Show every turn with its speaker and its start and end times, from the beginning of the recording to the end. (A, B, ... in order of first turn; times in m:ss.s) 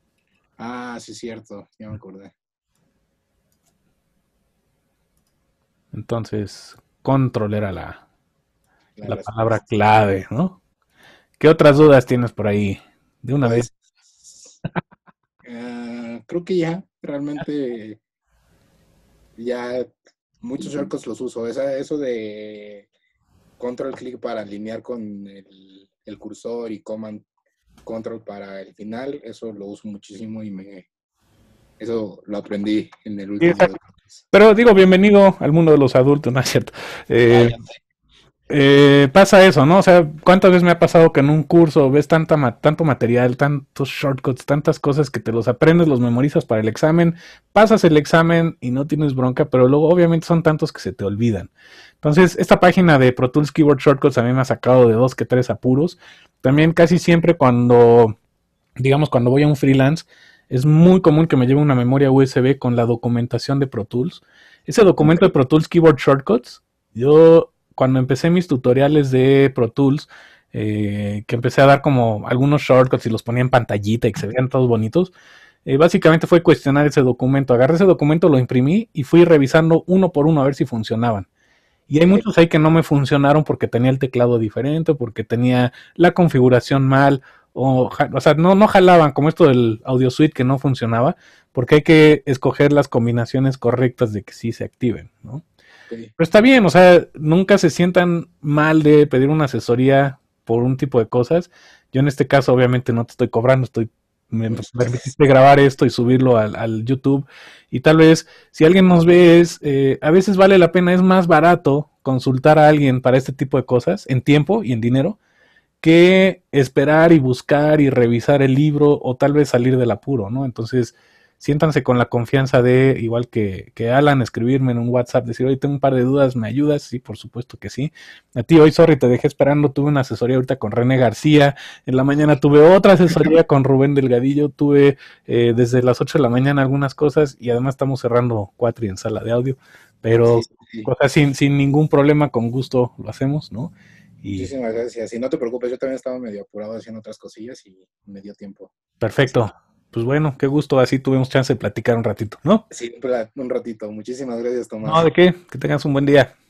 0:00.6-0:02.3 A
0:05.9-0:08.0 B
0:09.0-0:09.6 A
0:09.0-0:10.6 B
0:11.4-0:13.7 B
0:13.4-0:14.6 A
0:15.4-0:18.0 A
0:19.4-0:19.9 A
0:20.4-0:22.9 A
0:23.6-0:27.2 A
0:27.8-0:30.9 A
0:31.8-0:34.1 A
0:33.4-0:33.7 B
0:34.3-0:37.6 B
0:37.3-0:37.7 A
0:38.5-0:51.5 B
0:52.0-0:58.2 B
0:58.8-1:15.1 B
1:05.0-1:05.3 A
1:15.6-1:21.3 B
1:21.9-1:35.4 B
1:36.2-1:55.2 B
1:44.5-1:45.1 A
1:55.8-2:24.5 B
2:20.2-2:20.9 A
2:24.4-2:28.7 A
2:29.0-2:32.6 B
2:32.7-2:35.1 A
2:34.8-2:36.3 B